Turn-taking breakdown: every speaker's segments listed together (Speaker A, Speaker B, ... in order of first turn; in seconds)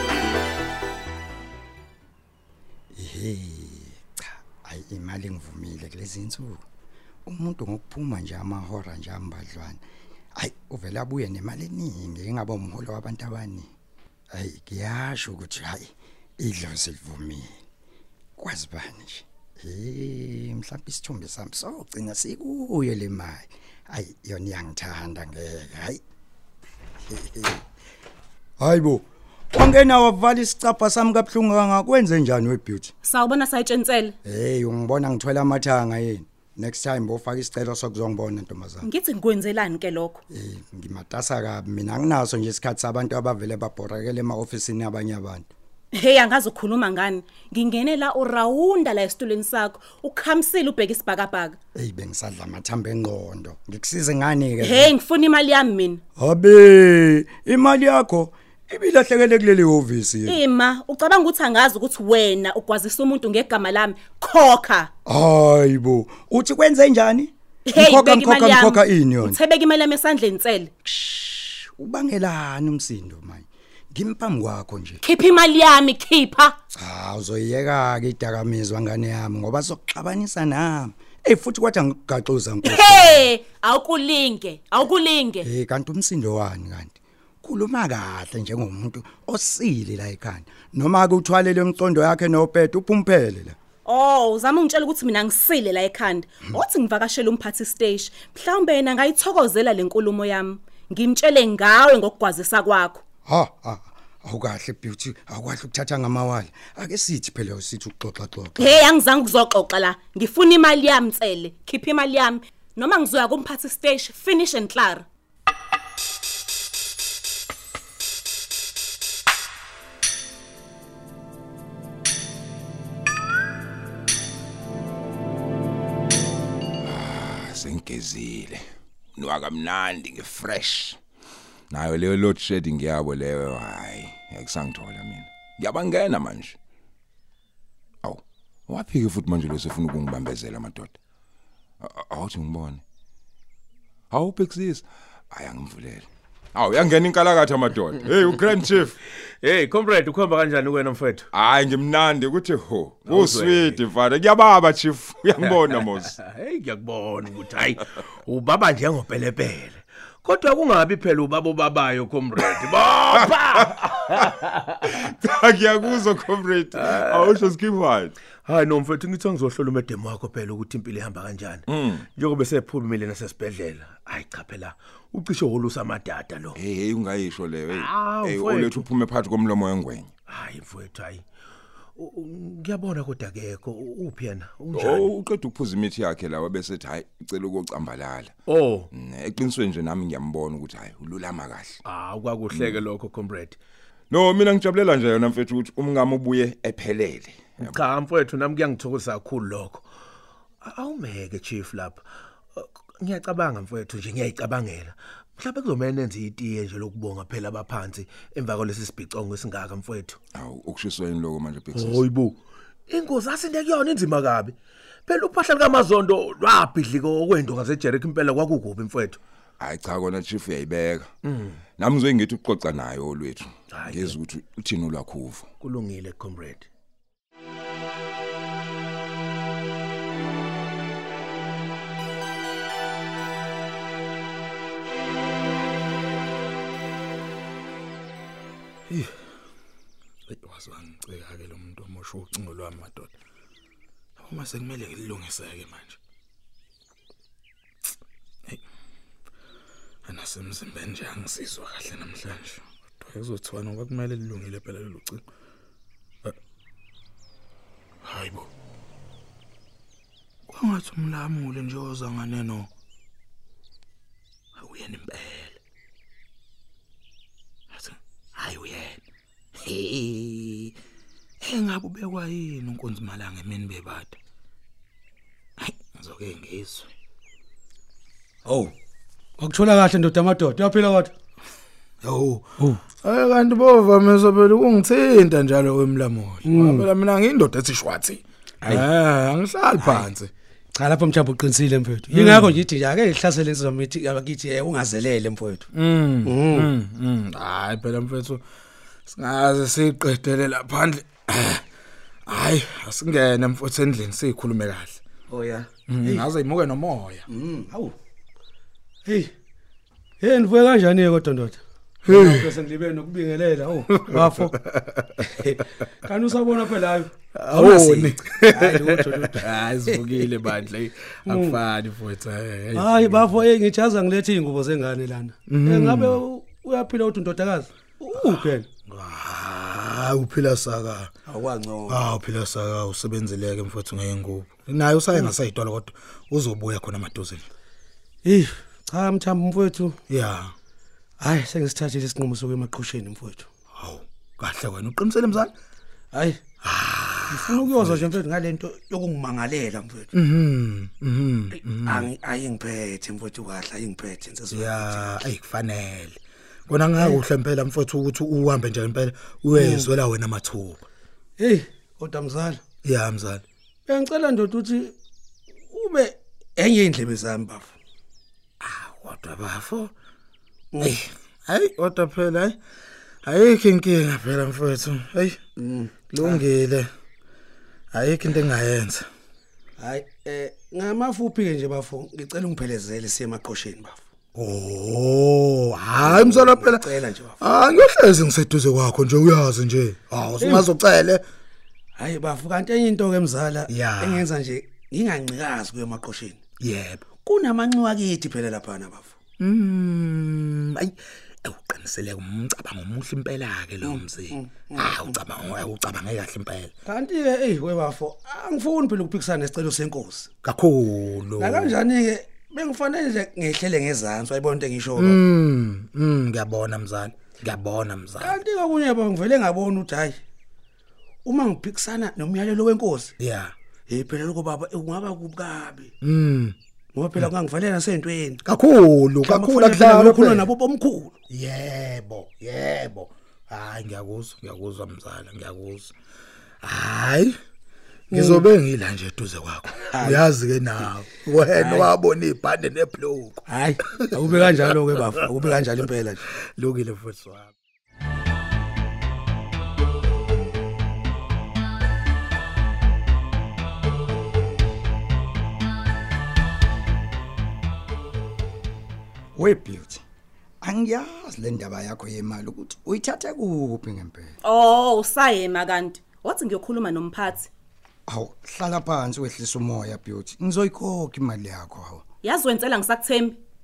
Speaker A: 3.0-6.6, 7.3-9.8, 10.4-13.7, 14.3-17.6, 18.4-26.0, 27.1-27.6, 28.6-32.9, 34.2-38.9, 40.3-45.5, 51.8-54.9, 56.2-60.4, 65.1-69.4, 70.9-75.0, 76.8-83.3, 85.4-93.6, 103.3-108.8, 459.4-460.0, 460.6-464.4, 468.1-472.0
Speaker B: 33.0-34.2, 38.8-40.2, 45.9-51.6, 54.6-56.0, 60.3-64.9, 67.7-70.7, 75.0-76.6, 82.6-85.5, 93.8-103.0, 108.6-115.1, 464.4-467.5, 472.2-473.4
Speaker C: 126.8-131.0, 131.7-136.6, 138.0-140.9, 141.8-142.8, 144.1-149.0, 151.3-156.2, 163.2-164.3, 164.8-168.2, 171.7-172.1, 176.6-180.1, 184.7-188.3, 188.9-191.8, 192.5-192.8, 194.1-197.8, 210.3-212.0, 219.6-221.1, 221.8-225.5
Speaker D: 149.4-151.3, 153.1-153.8, 155.4-164.9, 166.8-167.4, 168.4-176.6, 177.7-178.8, 180.3-181.2, 182.0-185.1, 188.5-188.9, 191.8-193.6, 197.6-199.8, 200.6-202.0, 202.6-210.2, 211.7-214.6, 215.1-219.2, 221.3-221.6, 223.7-224.2, 225.6-226.7
Speaker E: 240.3-243.1, 244.2-246.0, 250.1-255.2, 258.1-258.5, 260.5-262.7, 264.6-265.6, 267.7-269.0, 269.6-270.8, 271.4-274.1, 275.6-276.9, 282.0-290.3, 292.1-292.6, 295.7-298.4, 299.1-301.6, 302.3-305.0, 305.9-307.3, 312.1-312.5, 313.9-315.3, 317.3-323.3, 325.5-326.2, 328.2-331.1, 331.9-337.5, 340.1-340.5, 343.8-345.5, 346.6-348.1, 350.1-352.1, 354.5-360.8, 362.8-363.4, 368.6-369.9, 370.8-372.6, 373.2-375.4, 376.1-376.9, 377.9-379.1, 384.4-391.2, 393.7-394.3, 396.6-397.0, 399.4-406.7, 410.4-411.8, 415.0-418.4, 423.2-423.5, 426.0-426.6, 428.4-430.5, 431.3-435.9, 436.6-437.4, 438.1-444.3, 446.6-447.5
Speaker F: 278.5-278.7, 279.4-281.1, 286.4-286.9, 289.8-290.1, 290.7-295.7, 296.2-296.7, 305.3-306.3, 307.3-307.9, 309.1-309.3, 310.2-314.6, 315.3-320.5, 321.3-321.6, 322.8-328.7, 331.3-332.0, 338.2-340.0, 341.2-343.5, 346.1-346.4, 347.3-350.1, 351.9-355.3, 359.6-359.9, 361.4-362.6, 363.9-364.9, 365.7-367.7, 370.7-371.0, 375.6-376.4, 379.8-384.0, 386.0-387.4, 390.4-390.7, 392.0-396.4, 397.2-399.1, 403.8-405.2, 406.9-410.3, 411.4-415.2, 418.2-420.2, 421.2-423.1, 423.9-425.9, 426.9-428.4, 429.2-431.2, 438.1-438.4, 439.9-440.3, 441.5-441.9, 443.5-446.2